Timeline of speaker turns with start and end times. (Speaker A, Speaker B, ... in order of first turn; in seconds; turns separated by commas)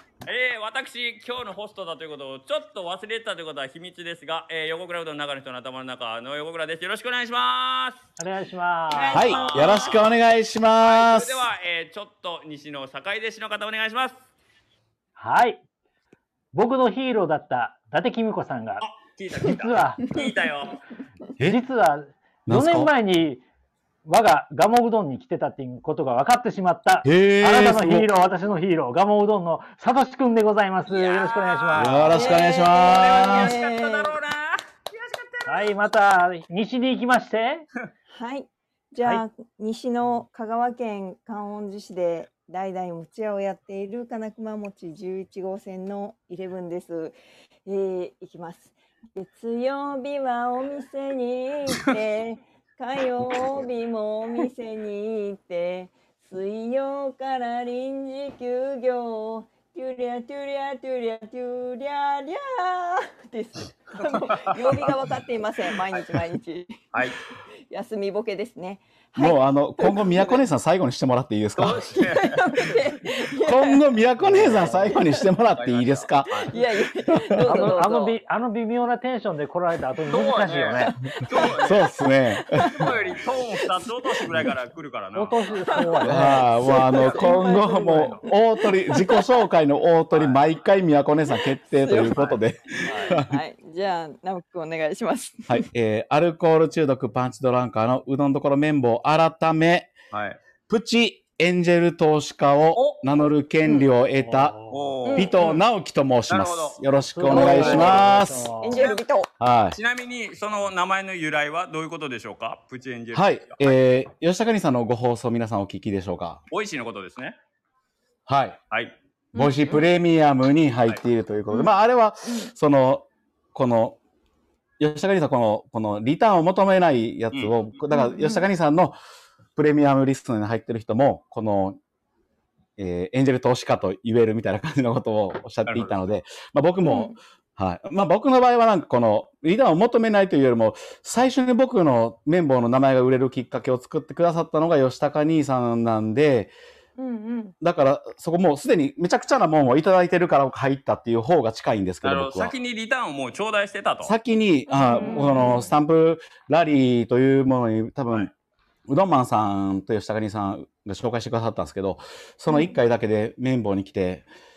Speaker A: 0.2-8.1, Speaker B: 8.2-9.3, Speaker A: 8.9-10.1, Speaker C: 9.0-10.0, Speaker D: 9.1-11.4, Speaker A: 10.8-14.3, Speaker B: 15.2-15.6, Speaker B: 16.5-18.9, Speaker A: 18.8-20.8, Speaker B: 19.4-20.0, Speaker C: 20.0-20.3, Speaker B: 21.4-23.4, Speaker D: 22.5-22.9, Speaker B: 24.1-32.2, Speaker D: 27.1-28.1, Speaker A: 30.9-35.7, Speaker D: 31.7-33.5, Speaker C: 32.1-34.2, Speaker B: 35.5-37.7, Speaker C: 38.1-47.1, Speaker C: 47.7-67.0, Speaker A: 64.0-65.0, Speaker A: 65.9-66.3, Speaker A: 66.9-67.2, Speaker C: 67.7-70.4, Speaker D: 69.2-72.0, Speaker A: 71.6-72.9, Speaker C: 72.0-73.8, Speaker D: 73.4-77.8, Speaker B: 74.2-75.0, Speaker C: 74.4-75.2, Speaker A: 75.5-76.5, Speaker C: 76.5-78.2, Speaker B: 77.5-81.0, Speaker A: 80.1-81.9, Speaker C: 80.8-84.3, Speaker D: 81.3-83.2, Speaker A: 82.8-85.8, Speaker B: 85.2-88.2, Speaker C: 85.7-89.4, Speaker D: 86.0-93.4, Speaker A: 90.1-90.5, Speaker C: 91.3-92.4, Speaker A: 92.9-93.2, Speaker C: 93.0-95.7, Speaker D: 95.5-99.9, Speaker A: 100.1-100.4, Speaker D: 100.7-104.6, Speaker A: 102.8-103.0, Speaker C: 103.6-103.9, Speaker B: 104.2-105.0, Speaker A: 104.7-105.4, Speaker C: 105.1-105.6, Speaker D: 105.1-108.5, Speaker A: 106.3-108.1, Speaker B: 107.1-108.9, Speaker C: 107.3-108.0, Speaker C: 108.6-109.3, Speaker D: 109.4-109.8, Speaker A: 109.7-113.8, Speaker D: 113.1-116.4, Speaker A: 116.5-117.4, Speaker D: 118.3-118.6, Speaker C: 119.3-119.9, Speaker D: 119.3-124.0, Speaker C: 121.5-122.5, Speaker D: 124.8-128.9, Speaker A: 127.3-127.6, Speaker C: 127.9-128.5, Speaker D: 129.6-131.8, Speaker D: 132.8-146.5, Speaker A: 135.7-135.9, Speaker C: 136.8-137.2, Speaker C: 147.0-147.6, Speaker D: 147.6-152.5, Speaker A: 152.0-154.1, Speaker D: 154.0-158.3, Speaker C: 154.7-155.7, Speaker D: 158.9-164.3, Speaker C: 162.5-162.8